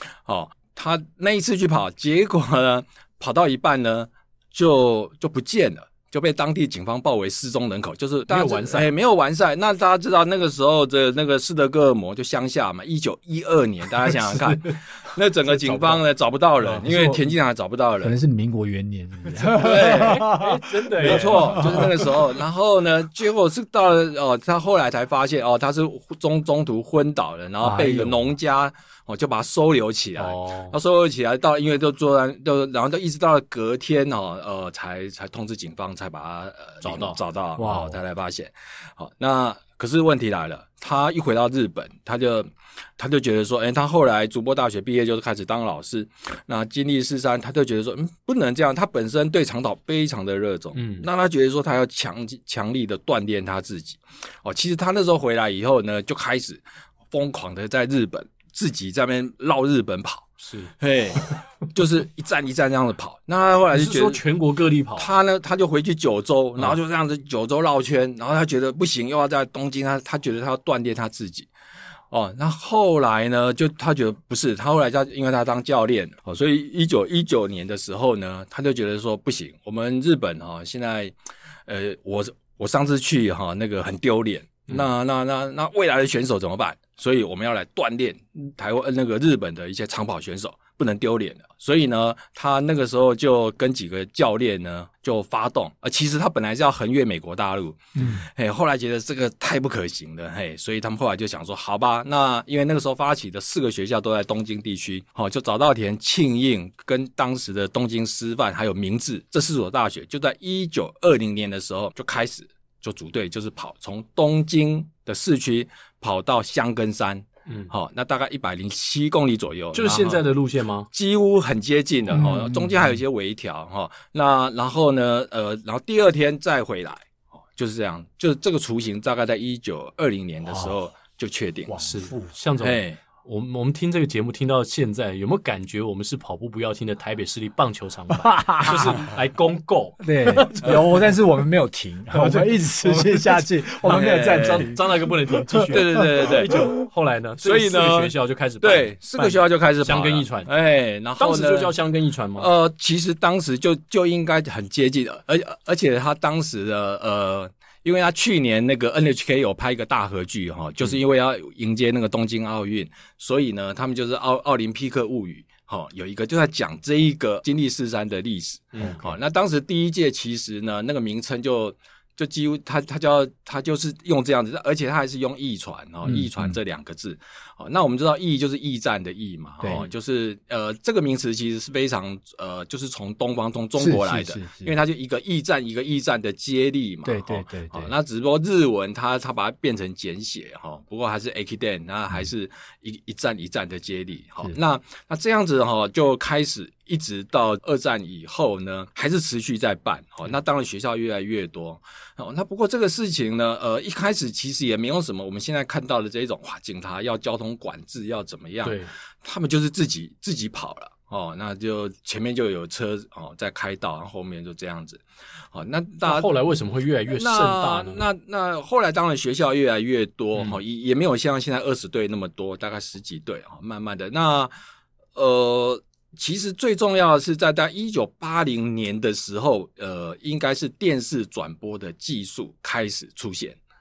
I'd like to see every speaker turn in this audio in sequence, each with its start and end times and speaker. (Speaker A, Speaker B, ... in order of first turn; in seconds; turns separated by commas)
Speaker A: 0.3-18.1, Speaker B: 8.3-8.9, Speaker B: 14.3-14.8, Speaker B: 15.5-16.0, Speaker C: 16.6-17.2, Speaker C: 18.0-22.1, Speaker B: 19.3-22.0, Speaker A: 19.6-20.4, Speaker A: 21.0-64.2, Speaker C: 27.6-28.4, Speaker B: 30.2-30.8, Speaker B: 36.8-37.2, Speaker C: 37.6-38.0, Speaker B: 50.8-51.1, Speaker B: 60.4-60.7, Speaker B: 63.7-65.1, Speaker A: 65.0-71.5, Speaker A: 72.1-81.1, Speaker A: 81.7-120.2, Speaker B: 119.7-120.9, Speaker A: 120.9-131.8, Speaker C: 122.1-123.0, Speaker C: 131.7-132.3, Speaker B: 131.8-140.8, Speaker A: 132.6-133.0, Speaker C: 138.1-139.0, Speaker C: 140.0-144.8, Speaker A: 143.8-144.7, Speaker B: 143.8-150.5, Speaker A: 145.6-146.7, Speaker C: 146.2-146.7, Speaker A: 147.4-151.7, Speaker B: 151.2-152.5, Speaker A: 152.4-215.0, Speaker B: 168.7-169.2, Speaker C: 176.0-176.6, Speaker C: 179.6-179.9, Speaker C: 183.8-184.7, Speaker C: 187.0-187.9, Speaker B: 208.6-208.9, Speaker A: 215.5-216.3, Speaker B: 216.0-218.0, Speaker A: 217.1-224.5, Speaker A: 225.2-233.6